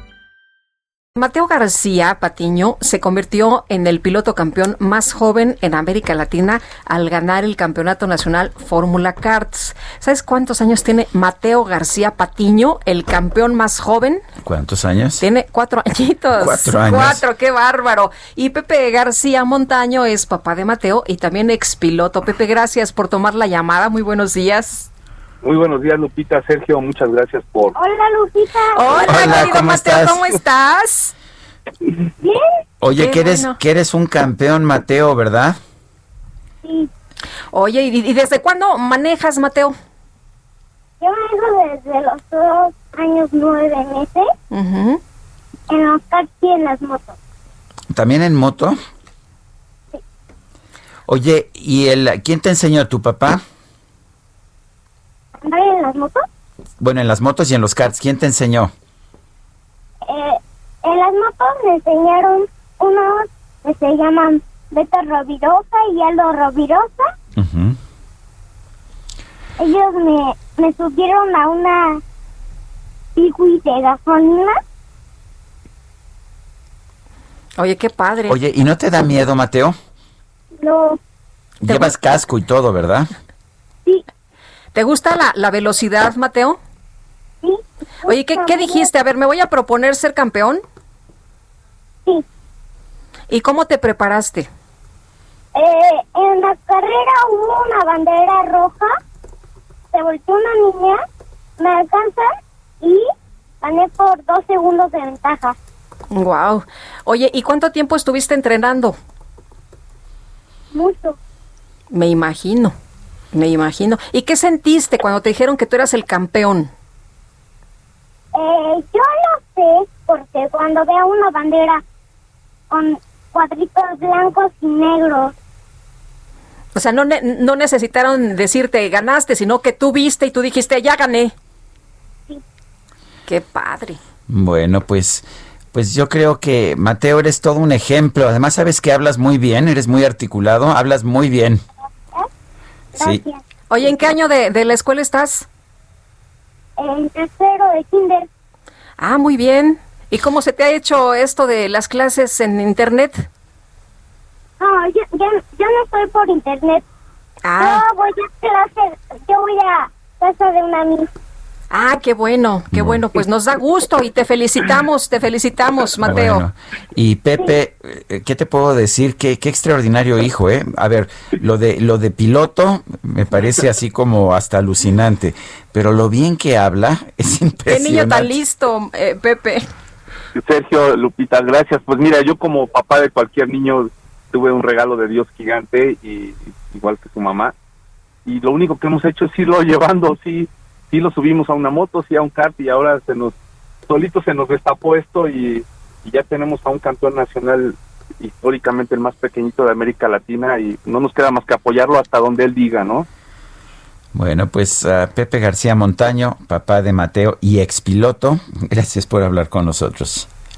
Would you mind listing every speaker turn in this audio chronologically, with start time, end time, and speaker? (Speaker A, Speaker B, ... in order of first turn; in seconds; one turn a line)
Speaker A: 1.1-14.2
Speaker B: 14.4-15.2
Speaker A: 15.2-24.9
Speaker B: 16.4-17.2
Speaker C: 25.4-27.8
Speaker D: 27.7-29.5
Speaker A: 28.7-31.1
Speaker B: 29.0-30.2
Speaker B: 32.8-35.6
Speaker A: 33.0-33.6
Speaker D: 36.6-36.9
Speaker A: 37.5-39.7
Speaker D: 41.0-44.3
Speaker A: 44.5-45.0
Speaker D: 45.7-47.2
Speaker B: 47.9-48.8
Speaker B: 51.1-53.4
Speaker D: 55.4-56.2
Speaker B: 56.8-58.7
Speaker D: 60.1-67.1
Speaker B: 67.3-67.8
Speaker D: 69.6-72.0
Speaker D: 73.2-74.6
Speaker A: 77.6-78.4
Speaker B: 78.3-79.7
Speaker D: 80.6-81.0
Speaker B: 81.6-83.1
Speaker A: 84.7-86.6
Speaker D: 87.4-88.9
Speaker A: 88.1-90.6
Speaker A: 93.3-94.5
Speaker D: 95.5-98.9
Speaker D: 99.9-101.0
Speaker D: 101.6-102.3
Speaker D: 103.6-105.5
Speaker A: 106.1-109.0
Speaker D: 110.7-111.2
Speaker A: 111.9-112.7
Speaker A: 113.3-116.7
Speaker D: 118.3-121.8
Speaker D: 122.7-125.3
Speaker A: 126.7-131.3
Speaker A: 133.2-134.0
Speaker B: 134.3-141.6
Speaker D: 142.9-143.4
Speaker B: 143.0-143.2
Speaker A: 143.7-145.5
Speaker D: 146.8-148.2
Speaker A: 149.0-153.2
Speaker D: 154.6-156.8
Speaker A: 157.4-157.8
Speaker D: 157.6-161.1
Speaker A: 161.7-166.4
Speaker B: 162.7-163.0
Speaker B: 166.0-178.3
Speaker A: 177.7-179.6
Speaker C: 180.3-187.5
Speaker C: 188.2-193.3
Speaker C: 193.9-203.1
Speaker B: 204.1-210.3